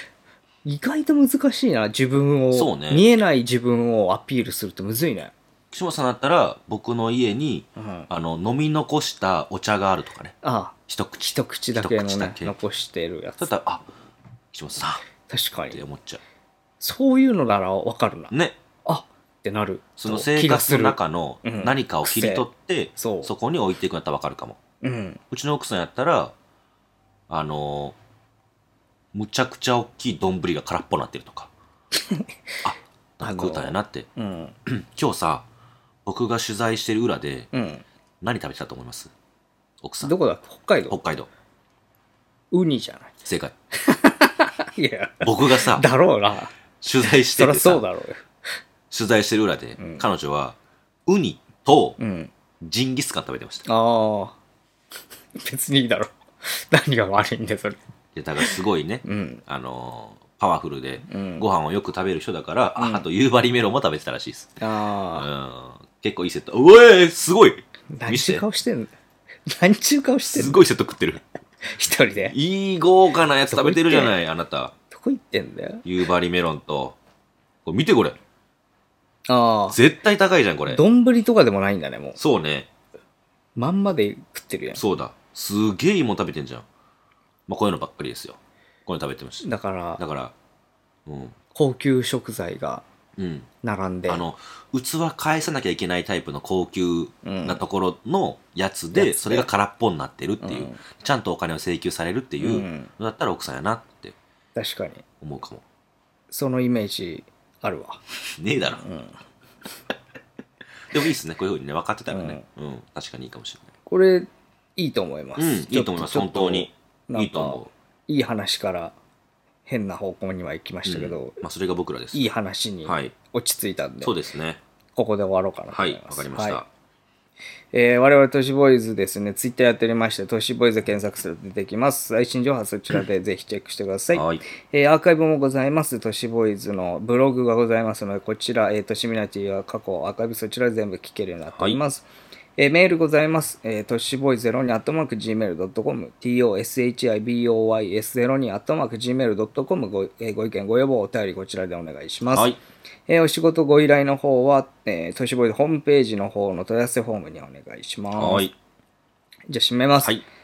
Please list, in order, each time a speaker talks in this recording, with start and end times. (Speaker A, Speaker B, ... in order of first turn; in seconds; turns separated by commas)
Speaker A: 0.6-5.3, Speaker B: 2.5-3.0, Speaker B: 5.7-10.3, Speaker A: 7.8-8.1, Speaker A: 10.4-13.5, Speaker B: 10.9-12.6, Speaker B: 13.4-13.8, Speaker B: 14.5-15.0, Speaker A: 15.3-15.8, Speaker B: 15.7-16.2, Speaker A: 16.8-18.3, Speaker B: 18.3-18.6, Speaker A: 18.9-22.4, Speaker B: 20.0-24.6, Speaker A: 23.0-23.3, Speaker A: 24.8-25.2, Speaker B: 25.3-26.3, Speaker B: 27.3-27.9, Speaker B: 29.1-31.5, Speaker B: 32.6-34.1, Speaker A: 33.2-34.6, Speaker B: 34.6-35.5, Speaker B: 36.0-37.5, Speaker A: 37.5-37.8, Speaker B: 38.2-39.1, Speaker B: 39.8-40.1, Speaker A: 40.0-40.9, Speaker B: 40.9-41.3, Speaker A: 42.5-43.1, Speaker B: 43.2-43.5, Speaker A: 43.8-48.2, Speaker B: 45.2-45.8, Speaker B: 46.8-47.8, Speaker B: 48.9-52.0, Speaker A: 49.8-50.0, Speaker A: 52.0-52.3, Speaker B: 52.6-53.6, Speaker A: 53.6-54.4, Speaker A: 55.4-57.8, Speaker B: 58.1-64.6, Speaker A: 58.4-59.4, Speaker A: 61.1-61.4, Speaker A: 62.8-63.0, Speaker A: 64.6-65.3, Speaker B: 65.2-68.4, Speaker A: 67.9-68.9, Speaker A: 69.5-70.6, Speaker B: 70.3-71.2, Speaker A: 71.6-72.3, Speaker B: 72.3-74.7, Speaker A: 73.5-74.2, Speaker A: 74.9-75.8, Speaker B: 75.8-77.0, Speaker B: 77.6-78.2, Speaker A: 79.3-79.8, Speaker B: 79.7-80.8, Speaker A: 80.7-82.2, Speaker B: 82.2-82.7, Speaker A: 83.5-84.8, Speaker B: 84.7-86.7, Speaker B: 87.5-89.5, Speaker A: 89.4-90.0, Speaker B: 90.0-90.3, Speaker B: 91.0-91.3, Speaker A: 91.5-92.8, Speaker B: 93.2-93.5, Speaker A: 93.6-94.2, Speaker B: 94.1-104.1, Speaker A: 97.2-97.6, Speaker A: 98.9-99.5, Speaker A: 100.4-100.8, Speaker A: 102.4-102.9, Speaker A: 104.5-105.0, Speaker B: 105.2-105.6, Speaker A: 106.3-108.0, Speaker B: 108.4-108.8, Speaker A: 108.8-109.2, Speaker B: 110.9-113.7, Speaker A: 112.1-112.4, Speaker A: 113.9-118.9, Speaker B: 115.4-117.7, Speaker A: 119.7-121.4, Speaker B: 120.8-122.3, Speaker A: 122.1-124.1, Speaker B: 122.8-123.1, Speaker B: 124.0-124.6, Speaker A: 125.0-126.6, Speaker B: 125.7-126.7, Speaker A: 127.7-142.1, Speaker B: 134.1-134.4, Speaker B: 141.5-141.8, Speaker A: 142.6-152.5, Speaker B: 152.3-152.6, Speaker A: 153.1-158.5, Speaker B: 158.2-158.5, Speaker A: 159.5-160.1